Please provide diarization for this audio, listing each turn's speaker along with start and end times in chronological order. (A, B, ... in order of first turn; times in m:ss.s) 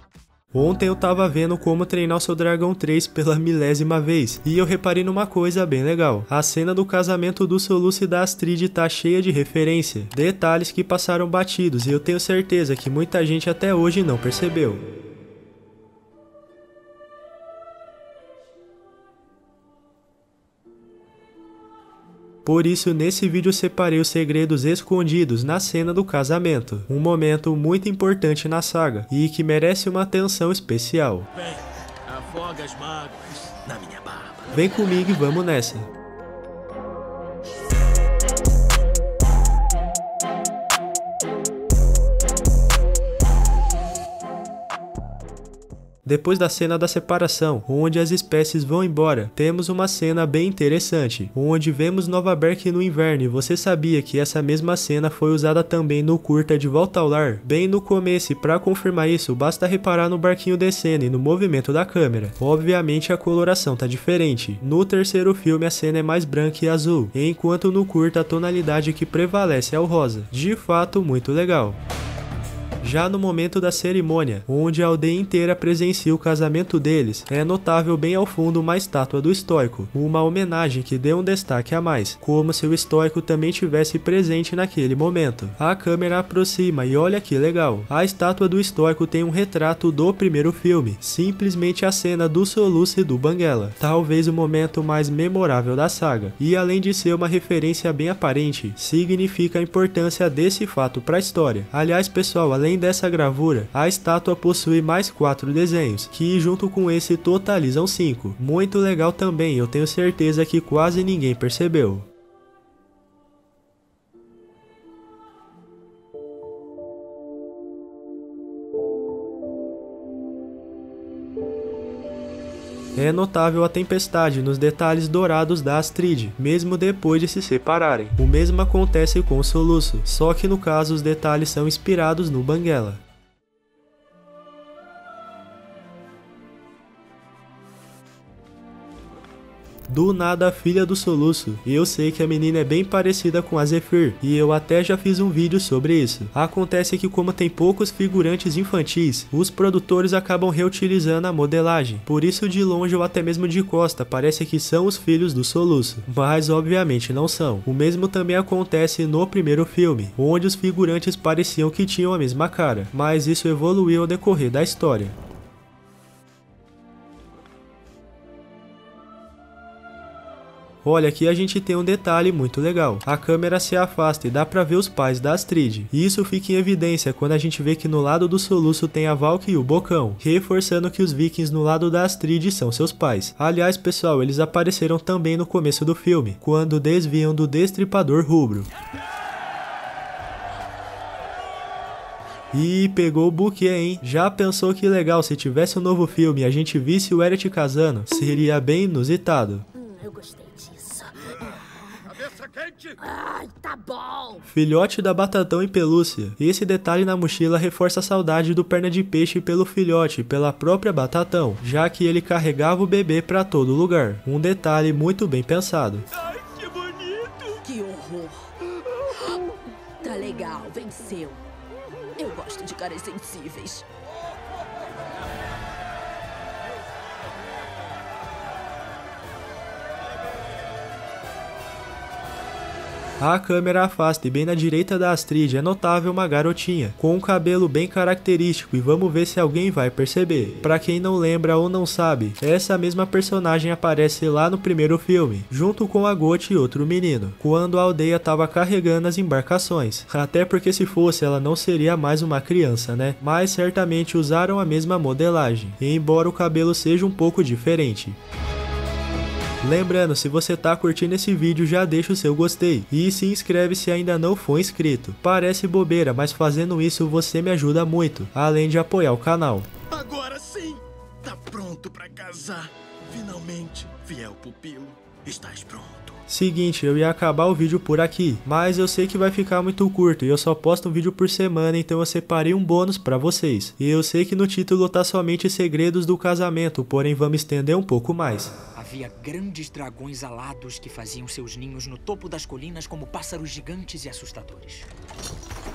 0:00.5-0:14.8 A
0:22.4-0:31.3 A
0:31.4-0:34.5 B
0:34.5-0:35.9 A
0:46.0-1:11.8 A
1:12.8-1:52.1 A
2:03.0-2:13.0 A
2:19.9-2:45.2 A
2:50.8-3:08.7 A
3:12.5-3:19.7 A
3:19.8-3:21.2 C
3:22.2-3:23.0 B
3:23.0-3:24.4 C
3:24.4-3:36.1 A
3:36.3-3:37.6 D
3:37.6-3:38.6 C
3:39.1-3:41.4 C
3:42.2-3:43.9 C
3:53.2-4:18.2 A
4:19.6-4:29.7 A
4:29.9-4:36.2 B
4:36.3-4:48.5 A
4:48.8-4:54.9 D